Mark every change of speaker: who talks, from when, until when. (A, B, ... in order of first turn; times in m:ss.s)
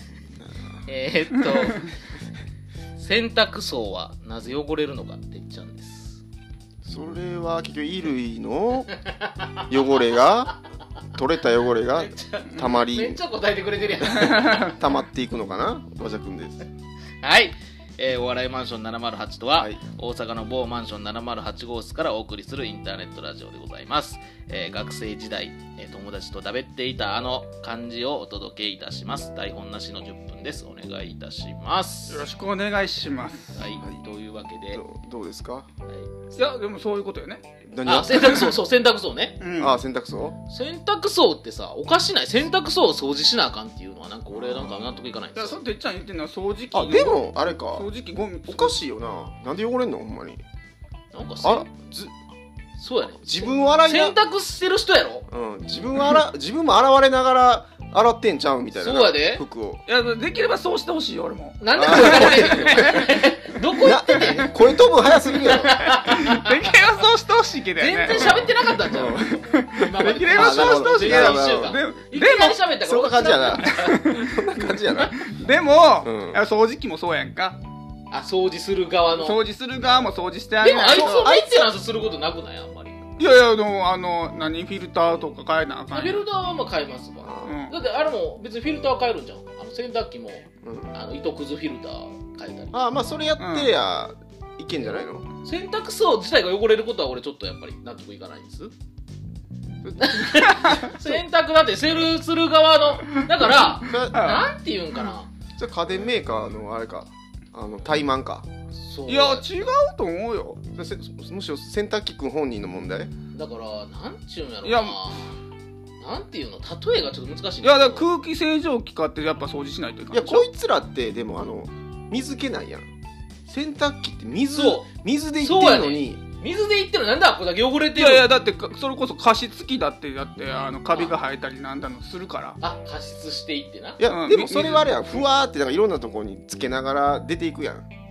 0:00.4-0:00.7 A
0:00.9-0:01.9 B
0:01.4-0:01.8 C
0:03.0-0:06.2 B
0:06.8-0:08.9 A
0:09.2-0:09.5 B
0:09.7-0:10.5 A
0:11.2-0:13.2 A
0:11.9-0:14.8 B
0:12.6-0:12.8 C
0:14.2-0:14.7 C
0:14.6-0:16.7 A
0:17.2-0:32.2 B
0:32.1-0:33.6 C
0:33.5-0:34.8 B
0:34.7-0:35.7 A
0:36.4-0:37.5 C
0:37.7-0:38.5 A
0:37.8-0:39.4 B
0:39.4-0:39.8 C
0:39.6-0:40.4 A
0:40.5-0:45.6 B
0:44.3-0:44.7 A
0:45.4-0:48.8 C
0:46.7-0:47.9 A
0:48.5-0:50.4 A
0:51.1-0:51.7 B
0:51.4-0:52.1 A
0:52.8-0:55.3 B
0:53.2-0:54.2 A
0:55.3-0:59.8 A
0:58.8-0:59.4 B
0:59.9-1:03.2 C
1:01.6-1:04.5 B
1:01.8-1:03.0 A
1:03.8-1:05.9 A
1:05.5-1:06.7 B
1:06.0-1:12.6 C
1:07.8-1:14.0 B
1:08.1-1:09.4 A
1:10.3-1:11.8 A
1:12.8-1:15.2 A
1:13.6-1:17.6 C
1:16.0-1:16.4 A
1:18.1-1:19.4 B
1:19.2-1:21.3 C
1:20.6-1:23.0 B
1:21.0-1:21.5 A
1:23.2-1:26.2 C
1:25.9-1:32.7 B
1:27.2-1:27.6 A
1:27.4-1:27.8 C
1:30.6-1:30.9 A
1:32.7-1:35.3 A
1:33.4-1:33.7 C
1:35.4-1:38.7 B
1:39.8-1:40.7 A
1:40.0-1:45.3 B
1:40.6-1:40.9 C
1:43.9-1:44.2 A
1:44.1-1:44.4 C
1:45.6-1:48.5 A
1:48.8-1:49.6 B
1:49.1-1:50.6 C
1:50.8-1:53.1 A
1:53.3-1:55.4 B
1:54.6-1:55.0 C
1:56.0-1:58.1 B
1:57.6-2:00.4 C
2:00.1-2:02.8 A
2:03.5-2:06.2 A
2:04.5-2:04.9 B
2:05.4-2:08.3 B
2:08.0-2:12.6 C
2:10.9-2:11.2 B
2:12.6-2:14.0 B
2:14.0-2:17.8 A
2:14.0-2:15.1 C